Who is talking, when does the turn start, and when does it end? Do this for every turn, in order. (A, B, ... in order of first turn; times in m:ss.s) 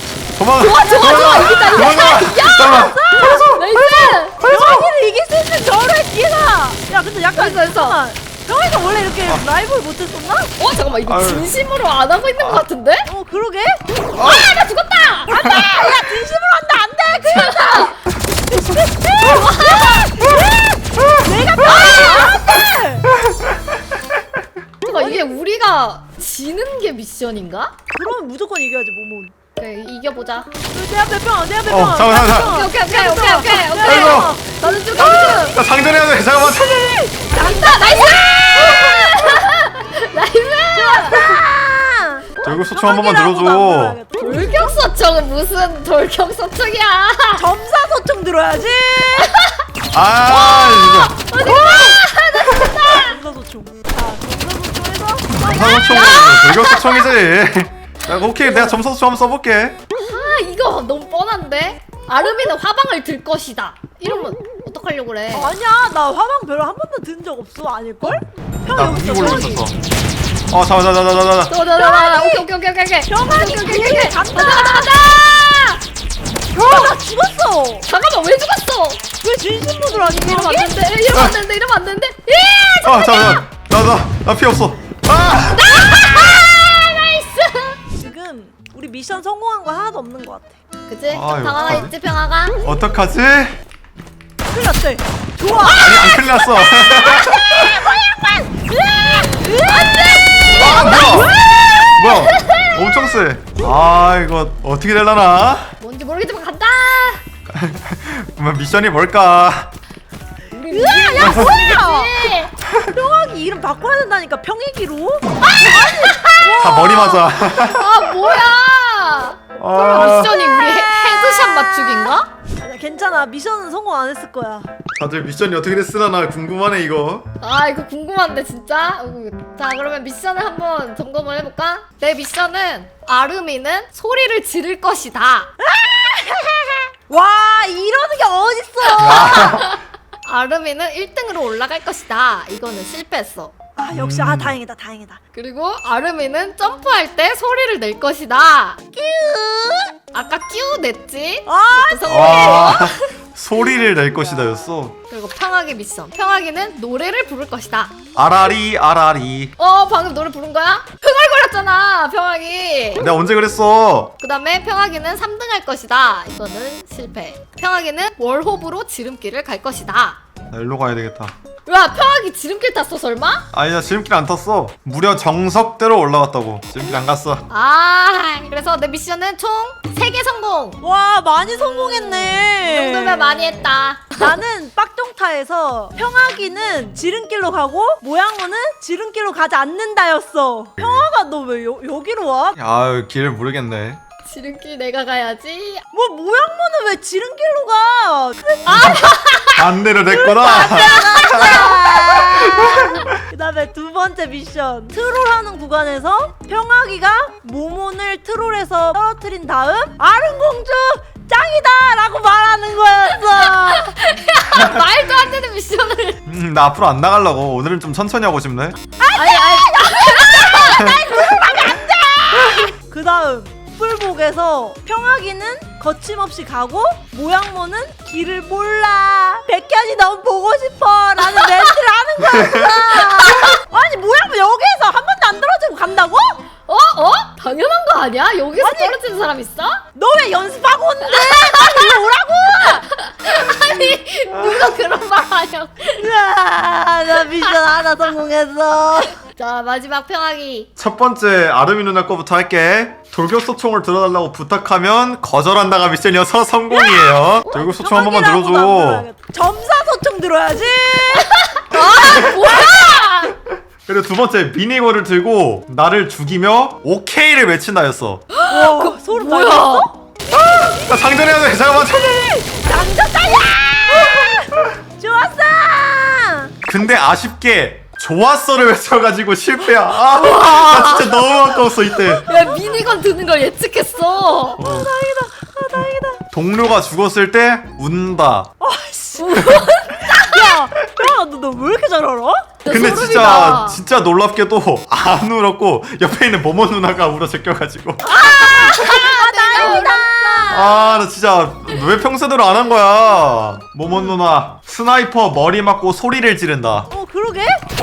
0:00.3-0:03.8 A
0:00.6-0:02.9 B
0:00.8-0:03.6 C
0:03.5-0:04.5 B
0:04.4-0:10.5 C
0:04.4-0:04.8 A
0:07.3-0:08.0 B
0:10.6-0:13.1 B
0:11.1-0:11.5 A
0:12.4-0:12.6 A
0:13.0-0:13.8 C
0:14.2-0:14.5 A
0:14.2-0:15.4 B
0:15.3-0:23.1 C
0:17.3-0:18.0 B
0:19.2-0:20.1 B
0:21.9-0:22.3 B
0:24.8-0:27.7 B
0:27.9-0:29.3 C
0:29.6-0:30.5 B
0:30.7-0:35.6 C
0:31.7-0:32.5 A
0:32.2-0:35.6 B
0:33.8-0:34.4 A
0:35.0-0:37.1 A
0:37.0-0:39.4 C
0:37.3-0:41.4 B
0:40.7-0:44.8 C
0:42.4-0:44.0 A
0:44.2-0:47.4 B
0:47.4-0:49.3 C
0:49.2-0:49.6 B
0:49.9-0:51.2 A
0:50.3-0:53.2 B
0:51.3-0:56.3 C
0:55.4-0:59.8 A
0:55.6-0:57.1 B
0:58.4-0:58.7 C
1:00.0-1:05.6 B
1:05.3-1:09.7 C
1:08.0-1:09.8 A
1:10.5-1:11.5 A
1:11.5-1:15.8 B
1:11.7-1:12.5 C
1:13.1-1:15.0 C
1:16.5-1:17.9 C
1:17.9-1:19.1 B
1:19.2-1:20.8 C
1:19.9-1:23.4 B
1:21.1-1:21.4 A
1:22.8-1:26.0 A
1:25.5-1:27.8 B
1:28.0-1:30.6 C
1:30.9-1:32.6 B
1:31.1-1:31.9 A
1:32.6-1:33.6 A
1:34.5-1:42.2 C
1:35.6-1:37.8 A
1:39.7-1:42.7 B
1:40.5-1:45.7 A
1:45.8-1:47.2 B
1:47.5-1:49.7 A
1:50.5-1:52.6 B
1:50.7-1:52.4 C
1:52.9-1:57.3 C
1:56.6-1:57.9 A
1:57.6-2:02.3 B
1:59.6-2:00.4 A
2:00.2-2:04.7 C
2:05.0-2:07.3 A
2:07.4-2:15.5 B
2:15.6-2:19.5 C
2:19.0-2:19.7 A
2:19.0-2:23.5 B
2:23.8-2:25.2 C
2:23.9-2:24.6 A
2:25.3-2:28.8 B
2:28.9-2:30.0 C
2:30.1-2:33.1 B
2:31.5-2:32.8 C
2:32.1-2:35.0 A
2:35.1-2:37.9 B
2:38.2-2:39.5 A
2:39.6-2:43.1 B
2:43.0-2:44.1 A
2:44.2-2:50.2 B
2:50.5-2:51.3 A
2:51.7-2:53.5 B
2:53.5-2:57.4 A
2:57.5-3:00.8 B
3:00.8-3:03.5 C
3:02.6-3:04.3 B
3:04.2-3:12.6 C
3:10.8-3:11.1 A
3:12.6-3:14.0 A
3:14.2-3:15.8 B
3:15.9-3:19.1 C
3:18.7-3:19.6 B
3:19.5-3:23.2 A
3:20.1-3:33.9 C
3:21.3-3:21.7 B
3:33.4-3:36.2 B
3:36.3-3:38.8 A
3:39.0-3:56.4 C
3:39.2-3:41.0 B
3:52.3-3:52.8 A
3:56.7-3:59.8 B
3:58.6-3:59.0 C
4:00.0-4:02.9 C
4:01.2-4:01.9 B
4:02.9-4:06.1 B
4:04.4-4:04.6 A
4:06.0-4:09.2 C
4:09.2-4:10.7 B
4:10.8-4:19.1 A
4:16.7-4:17.3 B
4:17.5-4:22.9 C
4:21.4-4:23.4 B
4:21.9-4:22.7 A
4:23.8-4:28.3 A
4:28.3-4:29.9 B
4:28.5-4:30.0 C
4:30.5-4:32.5 A
4:30.6-4:30.9 C
4:32.4-4:36.5 C
4:36.7-4:42.2 A
4:40.2-4:41.4 B
4:42.1-4:42.4 C
4:42.2-4:44.6 B
4:44.6-4:46.2 C
4:44.6-4:44.9 A
4:46.3-4:48.5 A
4:48.6-4:52.5 C
4:49.2-4:50.0 B
4:52.6-4:53.8 B
4:52.7-4:58.6 A
4:58.0-5:00.7 C
4:58.1-5:01.0 B
5:00.5-5:06.9 A
5:06.9-5:07.6 C